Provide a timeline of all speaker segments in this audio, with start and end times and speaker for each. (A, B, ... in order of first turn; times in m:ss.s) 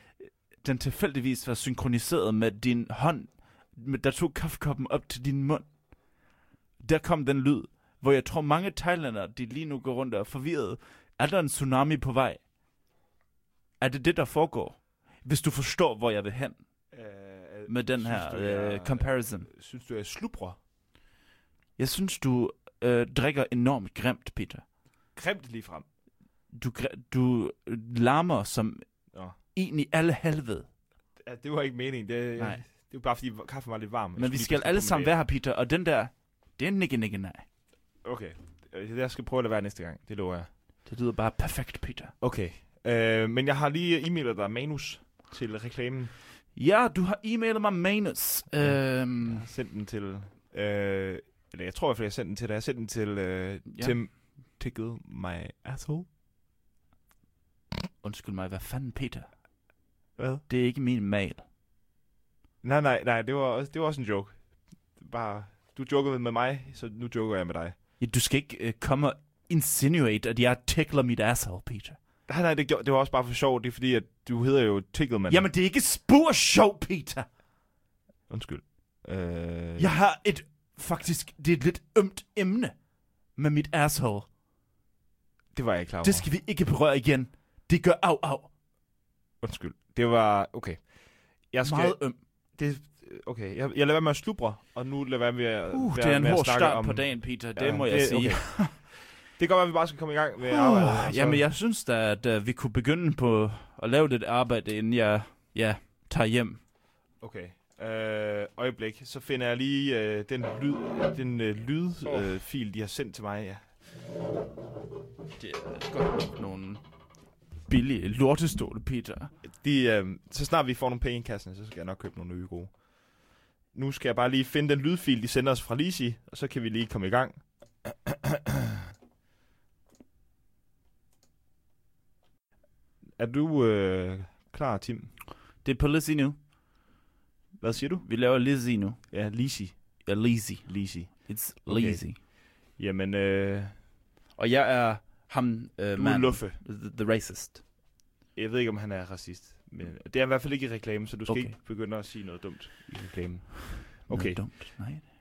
0:00.6-0:05.7 A
0:06.8-0:12.4 A
0:13.8-0:16.6 A
0:16.9-0:20.6 B
0:17.7-0:19.5 A
0:21.8-0:24.6 A
0:25.2-0:25.8 B
0:26.5-0:28.8 A
0:29.5-0:30.7 A
0:31.2-0:35.1 B
0:32.4-0:32.6 A
0:34.2-0:37.4 A
0:38.0-0:40.5 B
0:40.8-0:42.1 A
0:42.2-0:46.1 B
0:46.5-0:49.5 A
0:48.6-0:56.1 B
0:53.7-0:54.0 A
0:58.0-0:59.3 A
1:00.2-1:00.4 B
1:00.5-1:01.4 A
1:02.6-1:07.8 B
1:08.0-1:12.0 A
1:12.3-1:15.5 B
1:15.3-1:17.2 A
1:18.3-1:20.0 B
1:19.8-1:22.8 A
1:23.4-1:24.3 A
1:25.5-1:26.3 B
1:26.0-1:28.5 A
1:29.4-1:30.9 B
1:31.5-1:32.0 B
1:31.6-1:32.2 A
1:32.6-1:38.8 B
1:35.7-1:38.8 A
1:39.4-1:41.5 B
1:40.4-1:46.6 A
1:47.2-1:53.7 B
1:52.0-1:52.4 A
1:55.4-1:56.8 A
1:57.7-1:59.3 A
1:59.4-2:02.8 B
2:03.7-2:08.8 B
2:13.2-2:15.1 B
2:15.6-2:16.4 A
2:17.6-2:18.1 B
2:18.0-2:19.0 A
2:19.1-2:20.1 B
2:20.0-2:22.2 A
2:20.6-2:22.0 B
2:22.7-2:23.8 B
2:24.4-2:27.6 A
2:26.0-2:26.6 B
2:28.4-2:34.4 B
2:31.3-2:31.6 A
2:34.0-2:35.1 A